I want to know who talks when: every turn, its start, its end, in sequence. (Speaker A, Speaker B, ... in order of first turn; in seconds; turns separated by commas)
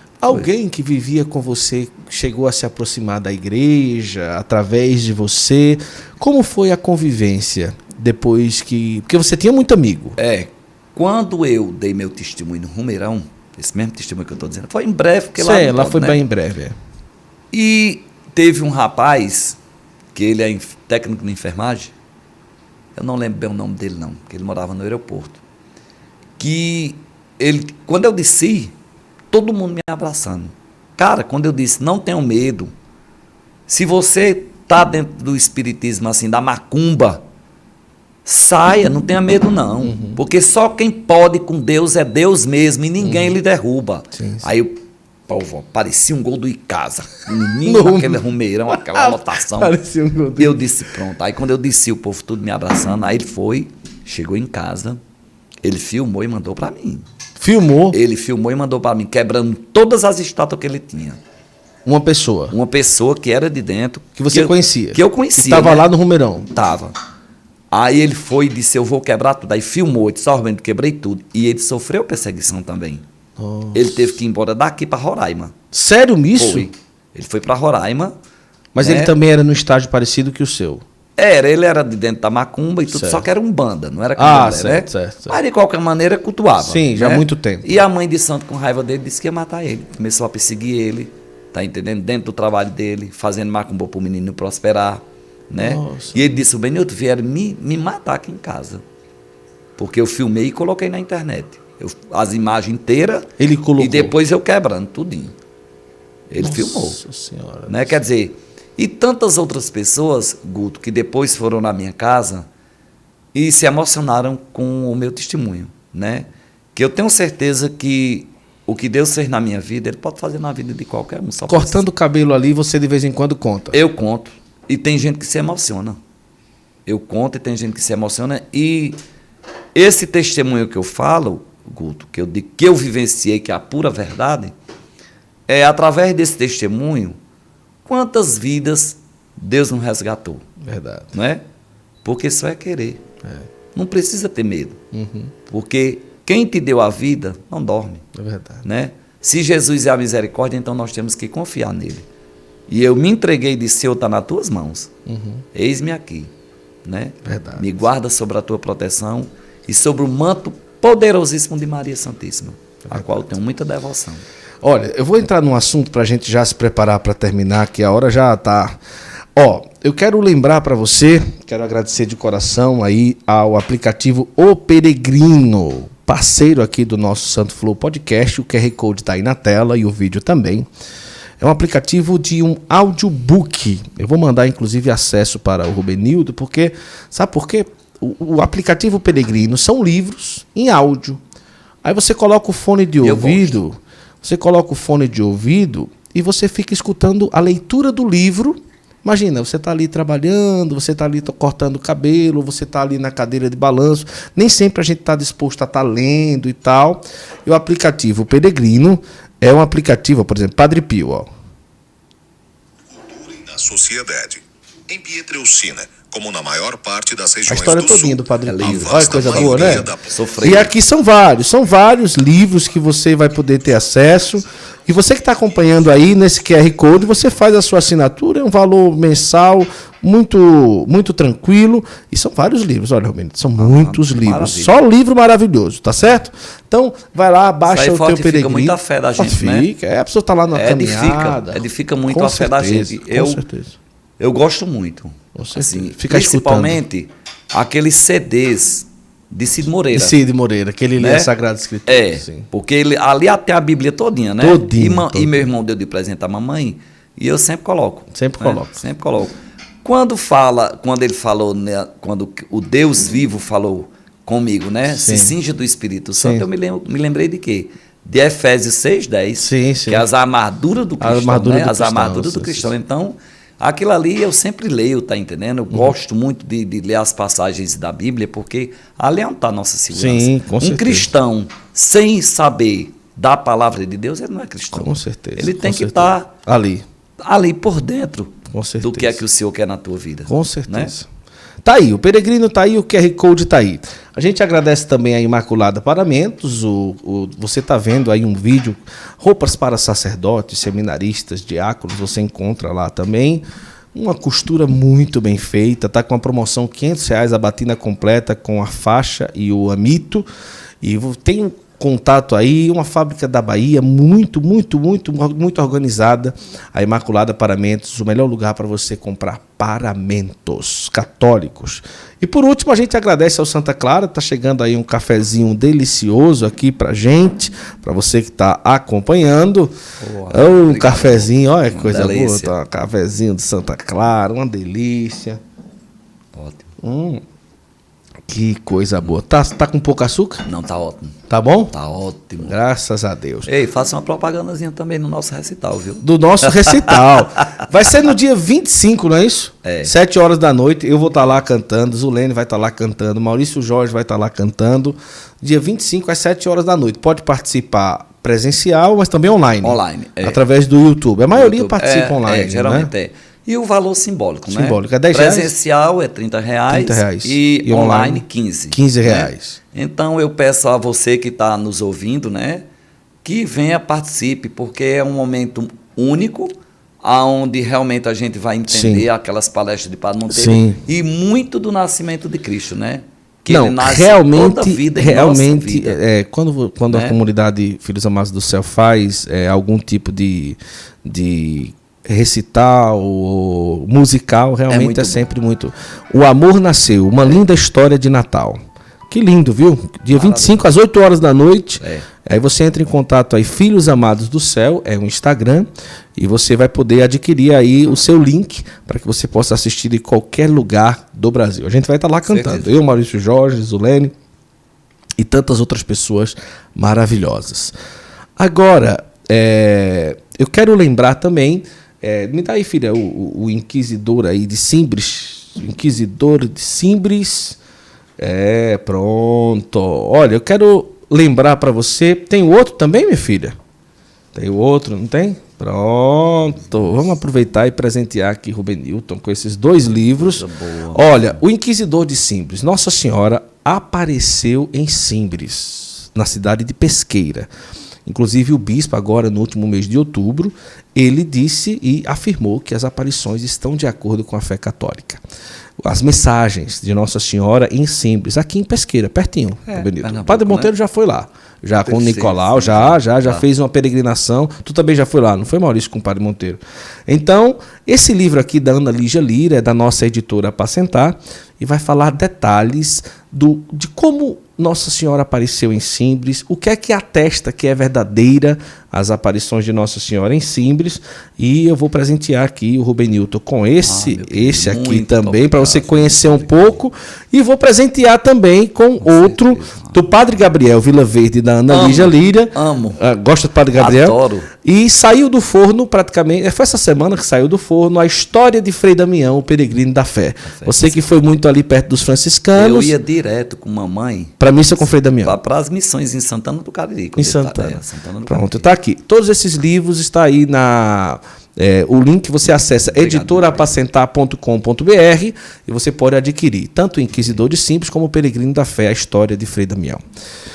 Speaker A: 0.2-10.2, Speaker B: 10.2-16.2, Speaker A: 15.4-16.8, Speaker B: 17.5-19.6, Speaker B: 20.1-21.9, Speaker B: 22.9-25.4, Speaker B: 26.4-28.7, Speaker B: 29.3-32.7, Speaker B: 33.7-37.2, Speaker B: 38.2-49.8, Speaker A: 39.8-40.2, Speaker A: 43.0-43.3, Speaker A: 44.1-44.4, Speaker A: 47.6-50.6, Speaker B: 50.4-55.0, Speaker B: 55.6-57.0, Speaker A: 57.4-58.0, Speaker B: 57.9-61.2, Speaker A: 61.8-62.5, Speaker B: 62.5-65.9, Speaker A: 64.2-66.5, Speaker B: 66.5-66.9, Speaker B: 67.7-73.0, Speaker A: 73.4-74.2, Speaker B: 73.7-75.5, Speaker A: 75.7-76.7, Speaker B: 76.3-78.1, Speaker A: 78.7-80.8, Speaker B: 78.8-79.1, Speaker B: 81.2-98.8, Speaker A: 82.9-83.3, Speaker A: 84.2-85.4, Speaker A: 86.6-87.8, Speaker A: 95.6-96.4, Speaker B: 99.8-105.3, Speaker A: 103.4-104.1, Speaker B: 106.3-107.0, Speaker A: 106.4-108.0, Speaker B: 107.7-112.5, Speaker B: 113.3-121.8, Speaker A: 121.5-123.8, Speaker B: 123.7-126.0, Speaker B: 126.8-129.0, Speaker B: 129.7-134.5, Speaker B: 135.5-137.2, Speaker B: 137.8-140.4, Speaker A: 140.6-141.1, Speaker B: 141.1-141.4, Speaker B: 142.0-143.0, Speaker A: 143.2-143.5, Speaker B: 143.7-144.8, Speaker A: 144.9-145.3, Speaker B: 145.5-148.0, Speaker A: 148.1-148.6, Speaker B: 148.6-152.1, Speaker B: 152.7-154.9, Speaker A: 155.1-155.4, Speaker B: 155.5-156.3, Speaker B: 156.8-164.2, Speaker A: 157.2-157.7, Speaker A: 162.9-163.2, Speaker A: 164.6-168.8, Speaker A: 169.3-180.7, Speaker A: 181.4-191.2, Speaker A: 191.8-211.3, Speaker B: 193.0-193.6, Speaker C: 213.0-220.1, Speaker A: 217.5-243.8, Speaker B: 218.4-220.7, Speaker B: 233.6-234.8, Speaker B: 237.7-239.7, Speaker B: 240.5-243.4, Speaker B: 244.2-250.1, Speaker A: 245.3-246.8, Speaker A: 249.9-252.5, Speaker B: 251.0-251.3, Speaker B: 251.8-286.3, Speaker A: 254.4-255.5, Speaker A: 258.1-258.8, Speaker A: 264.9-265.3, Speaker A: 266.2-266.4, Speaker A: 269.4-270.0, Speaker A: 271.0-272.7, Speaker A: 279.9-281.1, Speaker A: 284.7-286.8, Speaker B: 287.2-290.9, Speaker A: 288.5-289.2, Speaker A: 290.3-291.1, Speaker A: 291.6-310.2, Speaker A: 310.8-329.7, Speaker B: 330.0-332.5, Speaker A: 330.3-335.4, Speaker B: 336.3-336.7, Speaker A: 336.8-337.2, Speaker A: 338.3-340.5, Speaker B: 340.4-341.2, Speaker A: 341.3-341.7, Speaker B: 341.7-342.6, Speaker A: 342.4-343.5, Speaker B: 343.4-347.6, Speaker A: 346.0-362.9, Speaker B: 349.6-349.9, Speaker B: 359.6-360.4, Speaker B: 361.3-372.6, Speaker A: 364.5-365.5, Speaker A: 366.7-369.6, Speaker B: 373.2-386.0, Speaker A: 378.7-379.1, Speaker A: 380.3-380.8, Speaker A: 383.5-414.1, Speaker B: 386.9-387.2, Speaker B: 394.7-395.2, Speaker B: 400.1-400.7, Speaker B: 401.8-402.1, Speaker B: 412.3-412.7, Speaker A: 415.2-417.7, Speaker A: 418.4-427.6, Speaker A: 428.2-433.6, Speaker A: 434.3-447.5, Speaker B: 439.9-441.4, Speaker A: 448.1-455.2, Speaker A: 455.8-502.9, Speaker B: 459.6-460.7, Speaker B: 461.8-463.4, Speaker B: 483.8-486.8, Speaker B: 489.0-490.0, Speaker B: 491.7-493.0, Speaker B: 493.8-494.5, Speaker B: 500.4-501.0, Speaker B: 502.5-504.4, Speaker A: 504.4-505.4, Speaker B: 505.2-508.7, Speaker A: 507.2-520.0, Speaker B: 512.9-513.7